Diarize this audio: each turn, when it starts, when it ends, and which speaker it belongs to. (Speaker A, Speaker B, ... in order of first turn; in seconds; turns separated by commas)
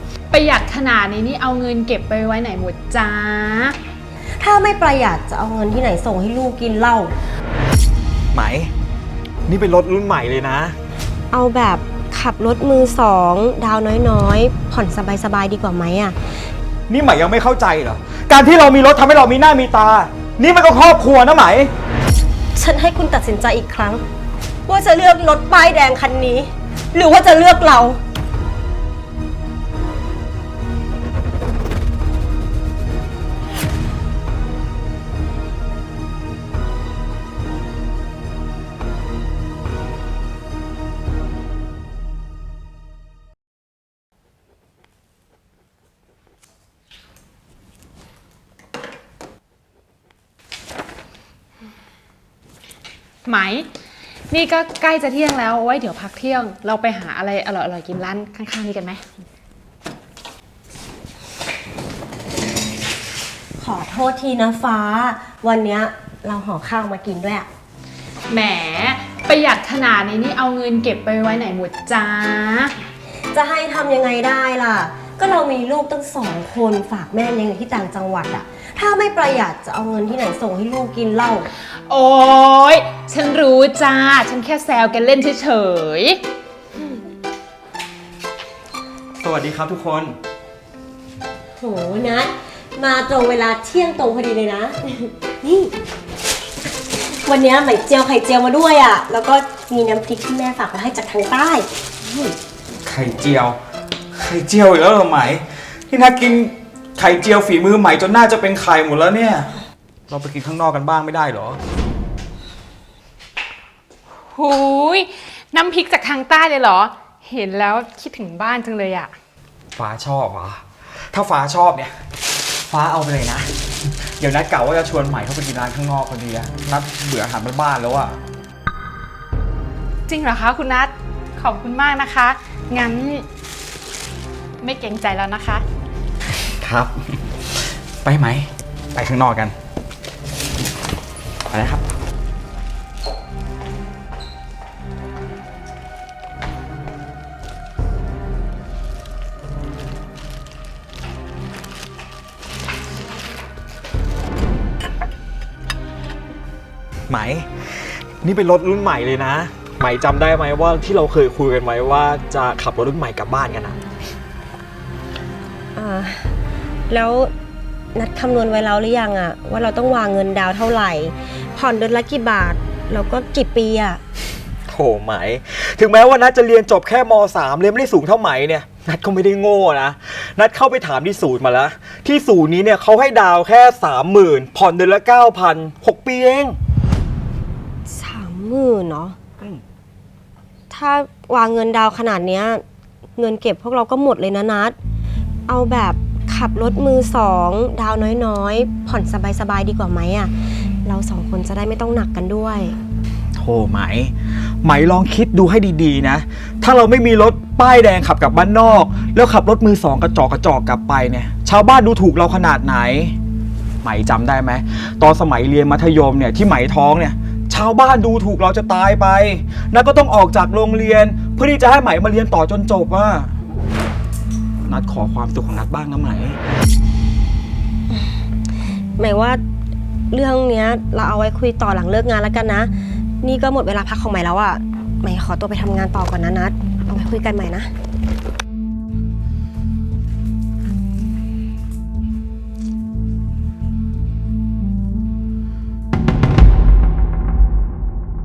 Speaker A: 0.3-3.8, Speaker B: 4.4-7.1, Speaker C: 8.3-8.7, Speaker C: 9.5-10.8, Speaker B: 11.3-16.2, Speaker C: 16.9-21.7, Speaker B: 22.6-24.0, Speaker B: 24.7-28.0, Speaker A: 53.2-53.7, Speaker A: 54.3-59.0, Speaker B: 63.6-67.5, Speaker A: 68.3-72.7, Speaker B: 73.3-81.5, Speaker A: 81.9-86.2, Speaker C: 89.2-90.2, Speaker B: 91.6-95.7, Speaker B: 97.0-101.7, Speaker C: 102.9-103.6, Speaker C: 104.2-109.5, Speaker C: 110.1-111.6, Speaker A: 114.3-119.1, Speaker C: 119.8-122.0, Speaker C: 122.6-128.2, Speaker A: 130.1-133.2, Speaker A: 134.6-135.6, Speaker C: 136.4-137.3, Speaker C: 138.0-139.6, Speaker C: 141.5-141.8, Speaker C: 157.1-163.8, Speaker B: 165.8-166.3, Speaker B: 166.9-167.3, Speaker B: 167.9-174.0, Speaker C: 174.7-186.6, Speaker B: 187.9-189.2, Speaker B: 190.7-192.6, Speaker B: 193.2-194.8, Speaker B: 195.5-200.3, Speaker B: 200.8-202.8, Speaker C: 203.4-204.1, Speaker C: 204.6-213.2, Speaker C: 213.8-223.3, Speaker C: 224.7-226.4, Speaker B: 229.0-229.4, Speaker B: 230.1-237.7